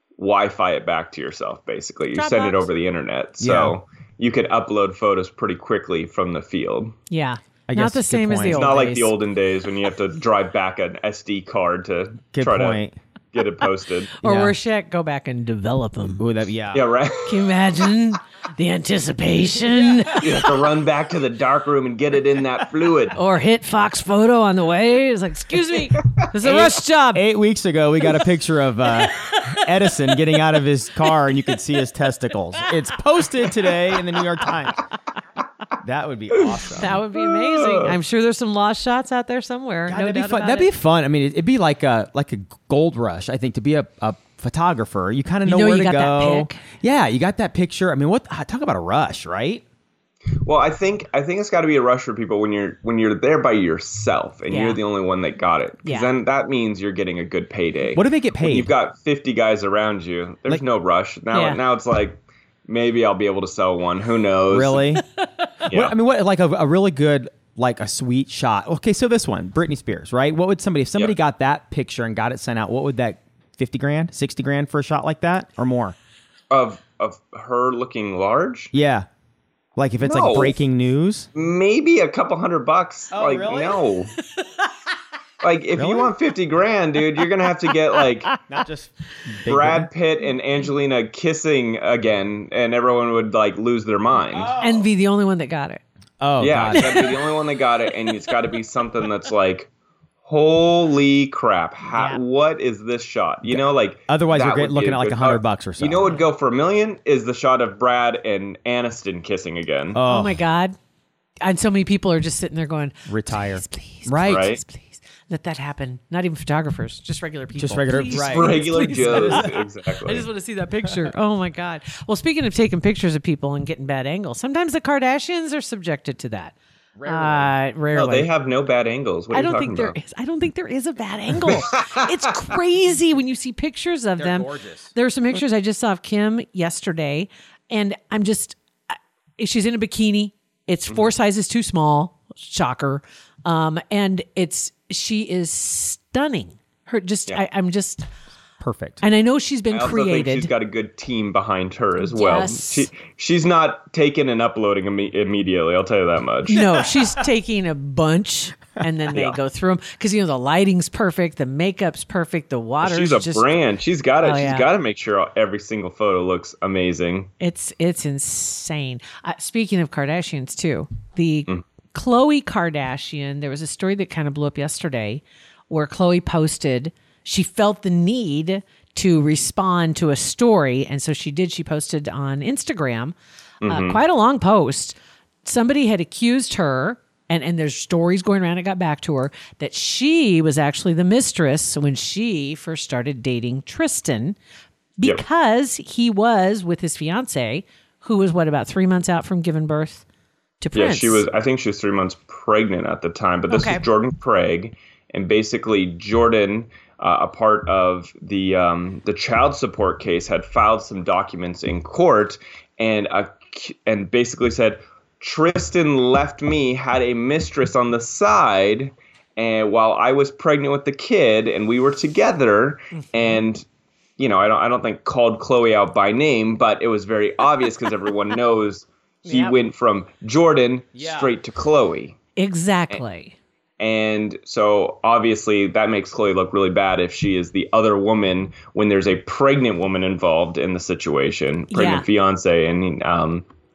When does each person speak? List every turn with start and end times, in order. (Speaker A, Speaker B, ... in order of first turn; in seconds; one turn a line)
Speaker A: 0.2-6.9
Speaker B: 2.1-2.7
Speaker C: 3.4-3.8
Speaker B: 7.1-9.1
Speaker C: 7.7-8.7
Speaker A: 8.5-14.2
Speaker C: 12.3-12.9
Speaker B: 14.2-16.2
Speaker C: 14.2-14.6
Speaker C: 16.0-16.8
Speaker A: 16.7-17.4
Speaker B: 17.3-20.4
Speaker A: 20.1-23.2
Speaker B: 23.1-27.3
Speaker C: 26.4-34.8
Speaker B: 29.2-29.6
Speaker B: 30.1-30.4
Speaker C: 35.8-37.0
Speaker B: 36.8-40.7
Speaker A: 37.1-38.0
Speaker C: 39.9-49.6
Speaker B: 45.4-46.6
Speaker A: 50.4-64.9
Speaker B: 54.5-54.8
Speaker B: 55.8-56.1
Speaker C: 57.9-58.7
Speaker B: 61.3-61.6
Speaker C: 64.5-65.0
Speaker A: 65.7-65.9
Speaker C: 65.7-75.9
Speaker A: 76.5-78.7
Speaker C: 78.7-79.1
Speaker C: 79.8-81.3
Speaker A: 80.0-80.6
Speaker A: 81.3-84.1
Speaker C: 83.1-83.8
Speaker A: 85.4-88.3
Speaker C: 85.8-86.1
Speaker C: 88.5-89.9
Speaker A: 89.5-94.5
Speaker C: 94.3-94.9
Speaker B: 94.6-95.8
Speaker C: 96.2-97.0
Speaker A: 96.4-99.7
Speaker B: 96.7-97.2
Speaker A: 100.2-110.0
Speaker C: 103.5-106.2
Speaker C: 109.9-110.4
Speaker B: 110.0-110.7
Speaker B: 111.4-119.5
Speaker C: 113.1-114.5
Speaker A: 114.2-114.6
Speaker C: 117.5-119.5
Speaker A: 117.9-120.3
Speaker B: 120.0-128.3
Speaker C: 126.9-127.5
Speaker A: 127.9-130.0
Speaker B: 129.3-138.6
Speaker C: 134.2-134.9
Speaker B: 139.4-148.1
Speaker A: 140.9-141.1
Speaker C: 148.6-149.0
Speaker B: 149.0-150.5
Speaker A: 149.7-156.7
Speaker B: 152.1-152.9
Speaker B: 156.5-163.5
Speaker A: 159.1-159.4
Speaker A: 162.8-167.3
Speaker B: 164.2-164.7
Speaker B: 167.4-194.4
Speaker A: 183.6-184.0
Speaker B: 195.0-200.0
Speaker B: 200.6-201.2
Speaker A: 200.7-223.7
Speaker B: 203.5-203.8
Speaker B: 222.9-223.4
Speaker A: 224.2-232.2
Speaker B: 229.2-229.6
Speaker C: 230.9-231.3
Speaker B: 232.4-233.3
Speaker A: 233.8-243.4
Speaker B: 241.7-242.1